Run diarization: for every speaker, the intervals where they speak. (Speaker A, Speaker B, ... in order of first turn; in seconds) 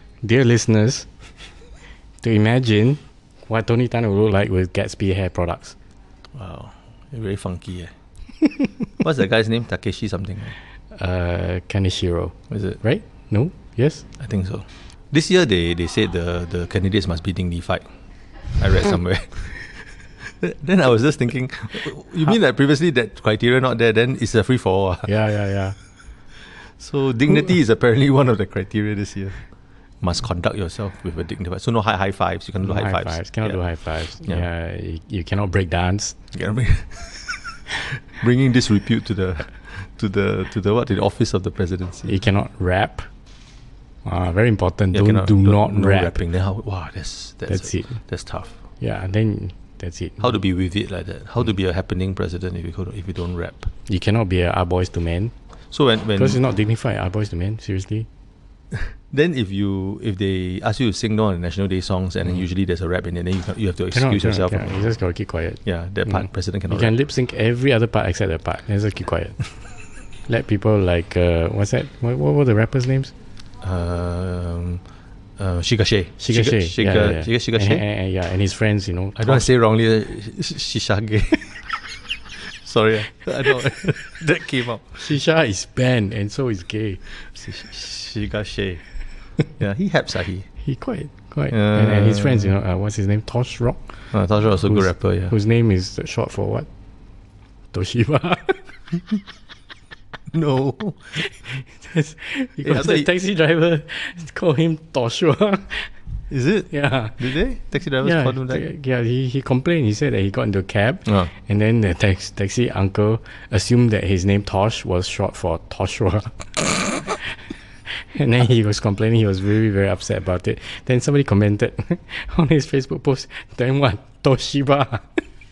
Speaker A: 0.2-1.1, 2.2-5.8, 10.9-14.1, 25.0-25.8, 32.6-36.2, 42.0-43.1, 44.0-46.2, 47.5-48.0, 48.8-50.4, 53.9-55.3, 56.2-58.1, 63.9-69.4, 70.3-73.1, 76.2-79.5, 85.0-87.0, 90.6-94.0, 94.6-96.7, 97.7-98.6, 101.2-105.9, 106.7-107.2, 108.0-117.3, 118.1-125.2
Speaker B: 6.3-7.9, 9.0-10.6, 12.5-12.8, 14.2-17.9, 18.6-25.1, 26.8-29.4, 30.0-33.6, 36.3-42.2, 44.9-48.5, 50.2-53.7, 55.7-56.4, 59.1-64.8, 65.7-66.9, 73.6-74.8, 75.4-77.8, 79.2-81.7, 82.4-85.1, 87.2-88.8, 89.6-90.5, 91.5-92.5, 94.1-95.3, 100.3-101.2, 102.6-103.1, 106.3-108.7, 111.1-111.3